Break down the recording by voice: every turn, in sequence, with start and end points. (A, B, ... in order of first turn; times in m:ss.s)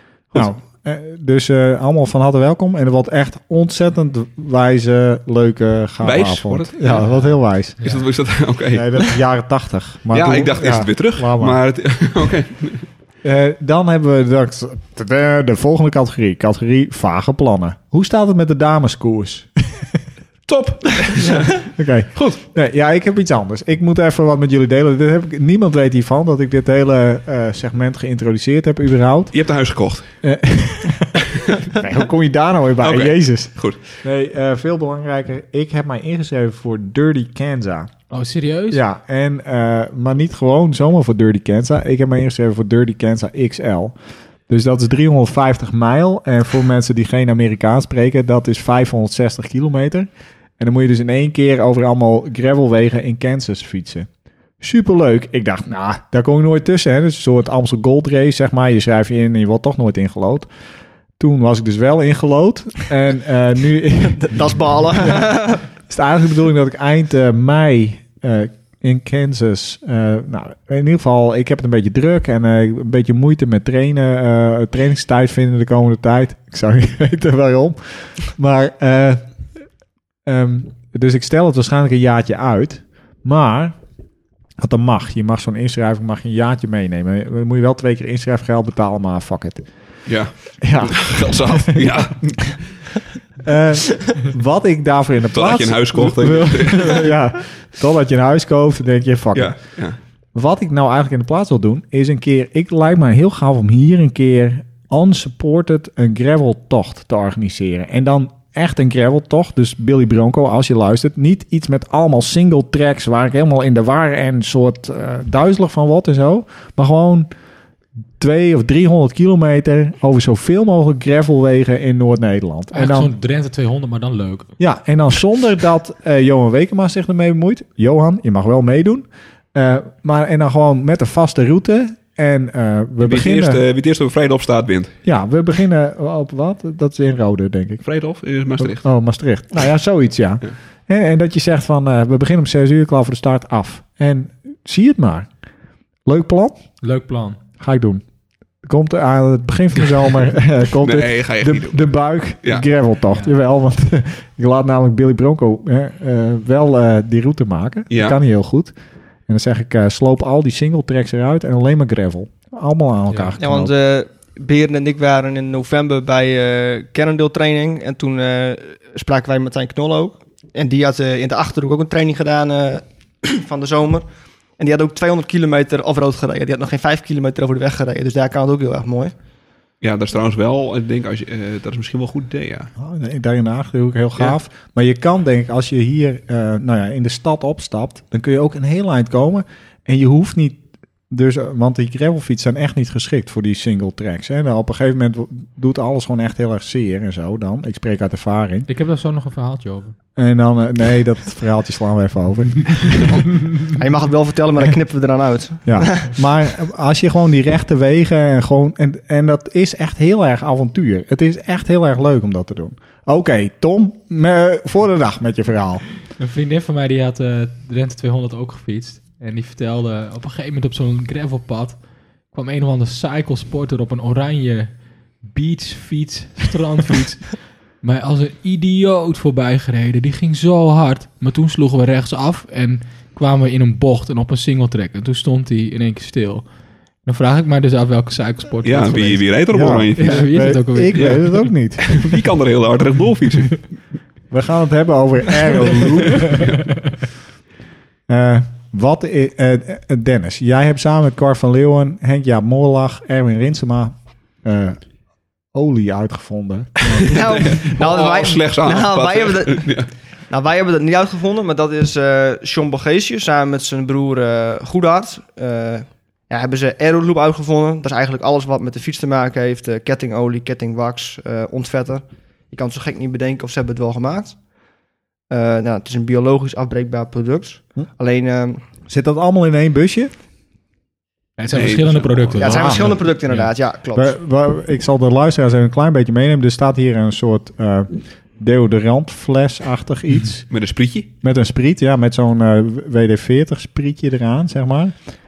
0:00.4-0:07.8 A
0:06.0-0:09.2 B
0:07.0-0:08.1 C
0:08.7-0:11.6 A
0:10.1-0:12.9 B
0:13.2-0:20.0 A
0:20.5-0:22.4 B
0:21.6-0:29.3 A
0:29.3-0:30.1 B
0:30.2-0:37.9 A
0:31.4-0:31.6 B
0:32.8-0:34.0 B
0:38.1-0:38.8 C
0:38.7-0:44.0 A
0:44.5-0:54.1 A
0:54.6-1:00.5 A
1:01.2-1:19.2 A
1:04.1-1:05.6 D
1:20.3-1:23.8 A
1:24.6-1:29.7 A
1:30.1-1:32.6 B
1:30.6-1:32.1 A
1:33.4-1:39.6 A
1:35.3-1:37.1 B
1:39.3-1:40.0 B
1:40.4-1:57.3 A
1:58.2-2:03.1 A
2:02.7-2:04.5 C
2:04.6-2:13.6 A
2:13.0-2:15.0 B
2:15.0-2:17.8 A
2:17.8-2:18.9 B
2:18.6-2:25.3 A
2:26.1-2:26.6 A
2:26.8-2:27.4 C
2:27.6-2:28.0 A
2:28.6-2:38.7 A
2:30.8-2:31.9 B
2:37.9-2:38.2 B
2:39.3-2:43.7 A
2:43.1-2:43.3 C
2:43.4-2:54.1 D
2:54.6-2:59.1 D
2:59.8-3:02.7 B
3:02.8-3:18.7 A
3:18.7-3:20.0 C
3:20.2-3:23.3 A
3:23.7-3:26.1 D
3:25.6-3:35.9 A
3:36.2-3:41.8 C
3:42.3-3:56.5 C
3:57.1-3:59.3 C
3:58.6-4:03.7 B
3:59.5-4:02.0 A
4:00.0-4:01.2 C
4:04.3-4:06.5 A
4:06.3-4:06.6 B
4:08.1-4:14.8 A
4:15.5-4:17.4 A
4:17.1-4:19.7 D
4:17.2-4:19.9 B
4:20.3-4:34.4 D
4:35.3-4:38.6 D
4:38.9-4:40.1 A
4:41.4-4:43.5 C
4:41.5-4:43.0 B
4:42.4-4:44.1 D
4:42.4-4:42.9 A
4:43.9-4:50.5 A
4:50.5-4:51.1 B
4:51.2-4:55.0 A